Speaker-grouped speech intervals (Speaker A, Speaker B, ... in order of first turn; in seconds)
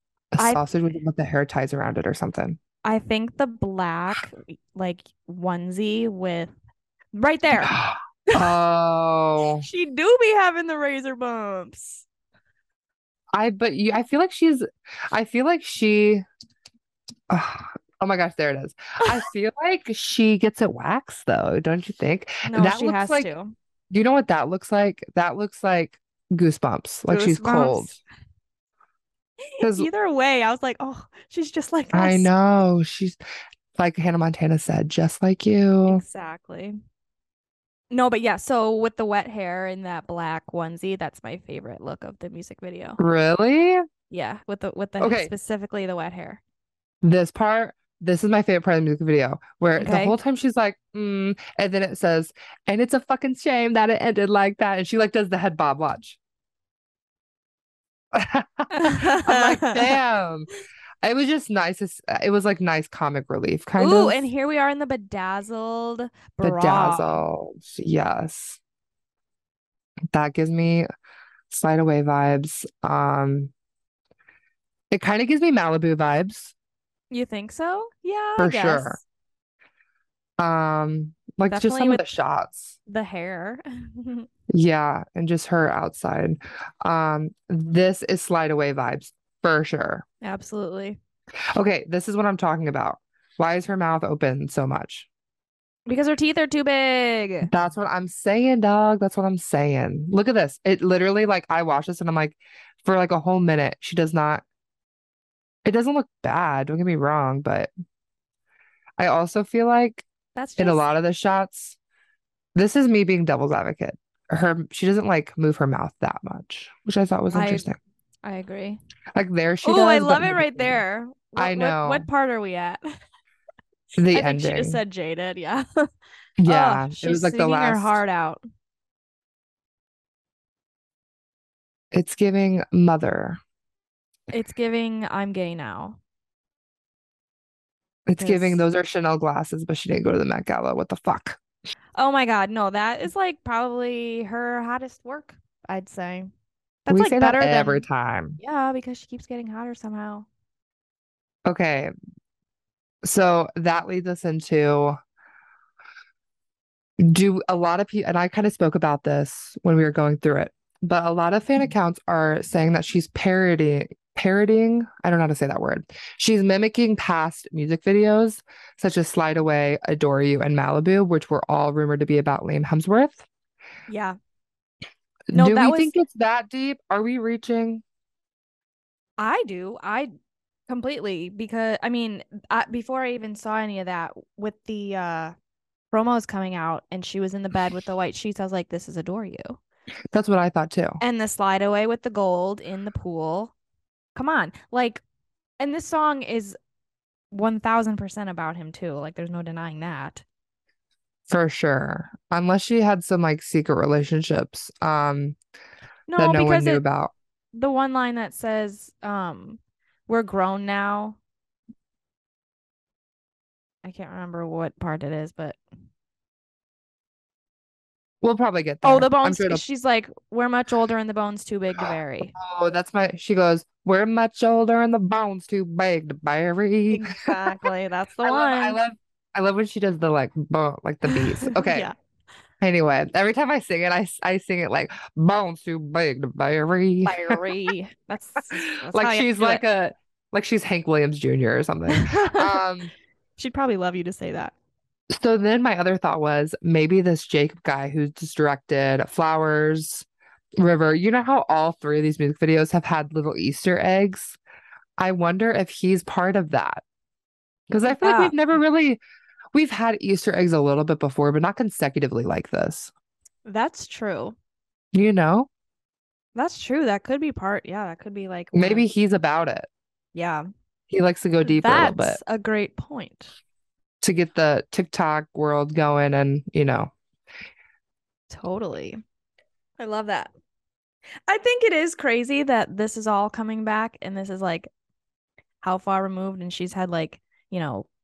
Speaker A: 0.3-2.6, 7.6-9.7, 13.3-16.2, 17.3-23.3, 23.9-28.0, 29.6-29.9, 31.9-33.2, 33.8-36.0, 43.0-43.8, 45.0-45.3, 47.0-56.2, 58.1-60.5, 61.0-64.2, 66.4-68.6, 70.1-70.9, 71.5-73.5, 74.9-76.5, 78.4-79.0, 80.4-82.8, 84.5-90.0, 91.5-95.1, 97.5-104.4, 105.7-107.7, 109.0-110.1, 110.6-111.8, 112.5-117.8, 119.2-120.8, 121.4-122.1, 124.0-124.8, 126.4-128.0, 131.9-133.4, 138.1-141.4, 146.9-148.4, 151.5-151.9, 153.0-155.0, 157.0-173.3, 175.3-177.8, 190.1-191.0, 201.3-205.4, 206.2-207.1, 218.2-219.6, 222.4-227.5, 228.2-231.9, 232.6-237.4, 238.9-242.9, 245.1-250.1, 250.6-254.4, 255.0-256.8, 257.7-259.0, 259.5-262.9, 264.9-265.5, 268.5-269.7, 270.9-272.2, 274.0-276.9
Speaker B: 0.4-0.7, 2.8-6.5, 7.1-8.5, 9.6-12.1, 22.5-23.5, 27.1-28.0, 29.5-32.3, 35.9-36.8, 37.9-43.0, 44.1-46.4, 49.8-50.2, 58.7-60.0, 63.8-67.2, 77.1-79.0, 81.5-82.2, 82.9-84.3, 90.2-91.0, 95.9-97.5, 110.4-110.9, 117.3-117.7, 118.2-118.8, 119.6-122.8, 124.1-125.7, 126.5-128.4, 134.3-136.0, 138.2-138.6, 142.0-146.3, 146.9-147.9, 148.4-150.3, 173.9-174.2, 175.3-175.9, 179.2-180.1, 180.7-185.3, 185.9-189.6, 191.0-193.5, 194.2-195.0, 195.6-196.6, 197.3-200.2, 206.1-206.8, 207.5-211.2, 213.8-215.6, 218.8-222.3, 226.9-228.8, 231.1-231.9, 237.1-239.6, 241.9-242.6, 243.4-244.5, 257.9-258.4, 263.5-264.4, 266.4-268.9, 270.1-270.4, 271.4-273.3, 278.3-279.0, 279.8-280.3, 281.3-284.7, 285.6-287.9